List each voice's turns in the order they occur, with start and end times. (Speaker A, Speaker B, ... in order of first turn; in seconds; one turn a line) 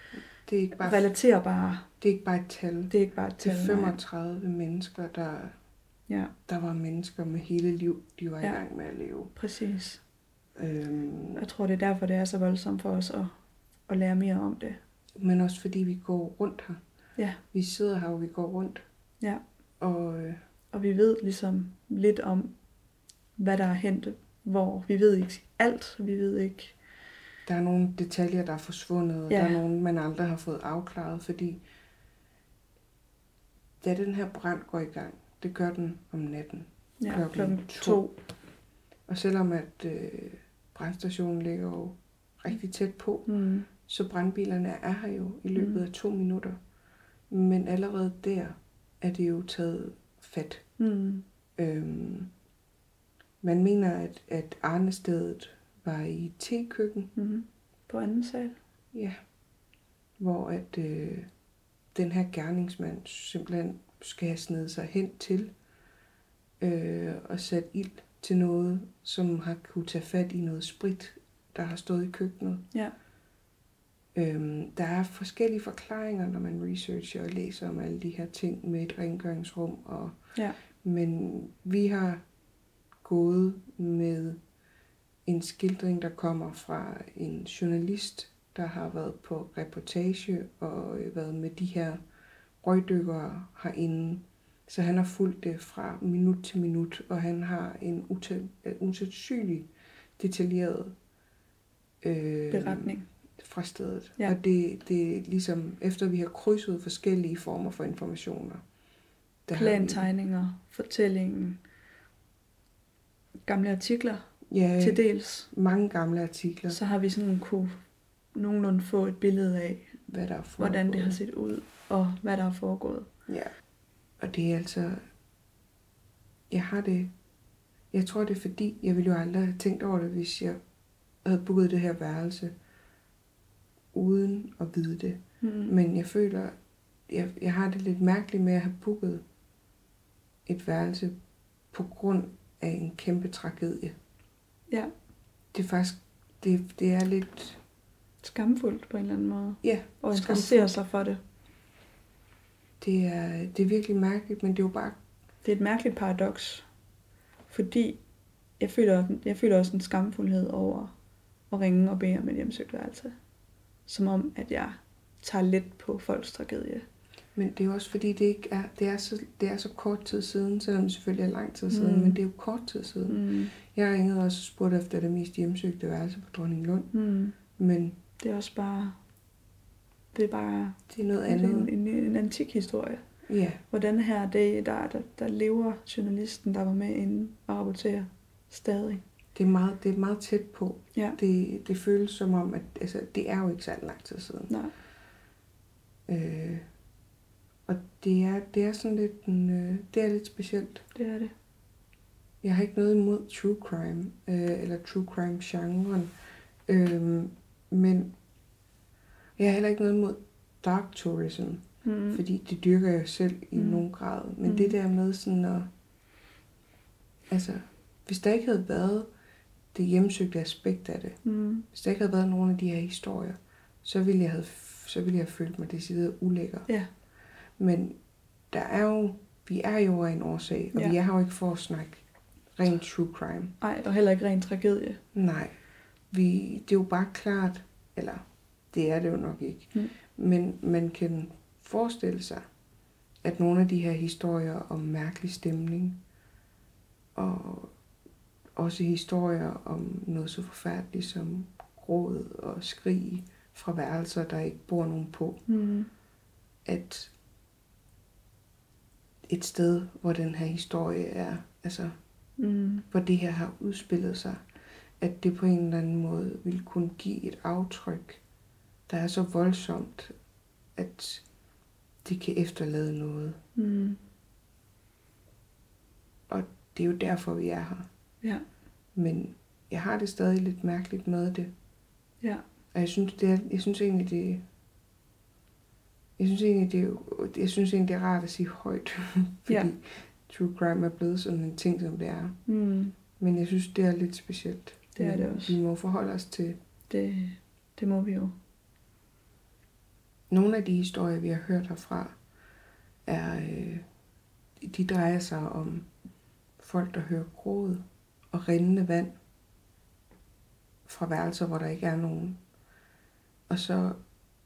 Speaker A: 0.4-1.1
Speaker B: 0.8-1.9
Speaker A: 2.0-5.5
Speaker B: 2.9-4.0
Speaker B: 6.1-6.3
Speaker A: 6.5-9.3
Speaker B: 9.3-10.0
Speaker A: 10.6-11.4
Speaker B: 11.3-13.3
Speaker B: 13.9-14.8
Speaker A: 15.2-16.8
Speaker A: 17.5-18.8
Speaker A: 19.8-20.4
Speaker B: 20.7-22.5
Speaker B: 23.4-26.8
Speaker A: 27.4-31.6
Speaker B: 29.3-29.6
Speaker A: 33.8-38.0
Speaker B: 37.0-38.2
Speaker A: 39.1-46.6
Speaker B: 43.2-43.7
Speaker B: 45.5-45.8
Speaker A: 47.3-50.6
Speaker B: 50.8-51.2
Speaker A: 51.6-52.3
Speaker A: 53.4-57.1
Speaker B: 57.1-58.6
Speaker A: 58.9-59.2
Speaker A: 60.2-61.3
Speaker A: 61.9-65.5
Speaker A: 66.6-72.6
Speaker A: 74.1-80.2
Speaker A: 80.8-82.2
Speaker A: 83.0-84.4
Speaker A: 85.2-92.0
Speaker A: 92.6-101.0
Speaker A: 102.0-108.6
Speaker B: 102.5-103.0
Speaker A: 109.5-110.1
Speaker B: 109.5-111.6
Speaker B: 113.4-114.3
Speaker A: 114.5-116.8
Speaker B: 114.8-115.5
Speaker B: 116.7-117.8
Speaker B: 118.3-119.9
Speaker A: 120.1-121.2
Speaker B: 120.6-123.1
Speaker A: 123.3-123.5
Speaker A: 124.2-125.0
Speaker A: 126.5-127.1
Speaker A: 127.9-130.6
Speaker A: 131.2-132.5
Speaker A: 133.9-136.6
Speaker B: 135.4-135.7
Speaker A: 137.1-139.2
Speaker A: 140.4-141.2
Speaker A: 141.7-143.9
Speaker A: 145.5-147.6
Speaker B: 148.2-151.2
Speaker A: 149.6-150.7
Speaker A: 152.8-155.0
Speaker B: 155.4-156.7
Speaker B: 157.5-158.0
Speaker B: 158.6-160.9
Speaker B: 161.5-163.2
Speaker B: 163.9-166.8
Speaker A: 167.3-176.9
Speaker B: 171.7-172.2
Speaker B: 173.1-173.5
Speaker B: 176.9-177.4
Speaker A: 177.5-178.0
Speaker B: 178.2-179.0
Speaker B: 180.1-183.0
Speaker A: 180.9-181.7
Speaker A: 183.3-183.6
Speaker B: 183.7-189.0
Speaker A: 189.3-194.5
Speaker A: 196.1-196.6
Speaker A: 197.7-200.8
Speaker B: 200.9-201.3
Speaker A: 202.4-206.1
Speaker A: 206.7-208.1
Speaker A: 209.4-215.7
Speaker B: 211.8-212.2
Speaker B: 213.5-213.8
Speaker B: 214.4-214.8
Speaker A: 217.3-219.1
Speaker A: 219.7-221.2
Speaker B: 221.2-221.7
Speaker A: 221.7-226.7
Speaker A: 227.6-228.0
Speaker A: 228.5-232.0
Speaker A: 232.6-233.5
Speaker B: 233.6-235.0
Speaker A: 235.1-235.5
Speaker A: 236.1-242.4
Speaker A: 243.2-246.0
Speaker A: 247.1-247.7
Speaker A: 248.6-255.4
Speaker B: 255.5-255.9
Speaker A: 256.6-257.1
Speaker A: 259.3-261.9
Speaker B: 262.4-262.9
Speaker A: 262.9-264.4
Speaker A: 265.0-268.2
Speaker A: 268.9-270.1
Speaker A: 270.8-271.2
Speaker A: 272.0-273.4
Speaker B: 273.6-274.0
Speaker A: 276.3-277.9
Speaker A: 278.9-281.5
Speaker A: 282.7-284.4
Speaker A: 286.2-292.4
Speaker B: 292.5-292.9
Speaker A: 293.2-296.6
Speaker B: 294.9-295.6
Speaker B: 296.9-298.4
Speaker A: 300.3-302.1
Speaker A: 303.1-303.8
Speaker A: 304.6-305.9
Speaker A: 306.6-309.1
Speaker A: 310.9-312.4
Speaker A: 313.5-314.0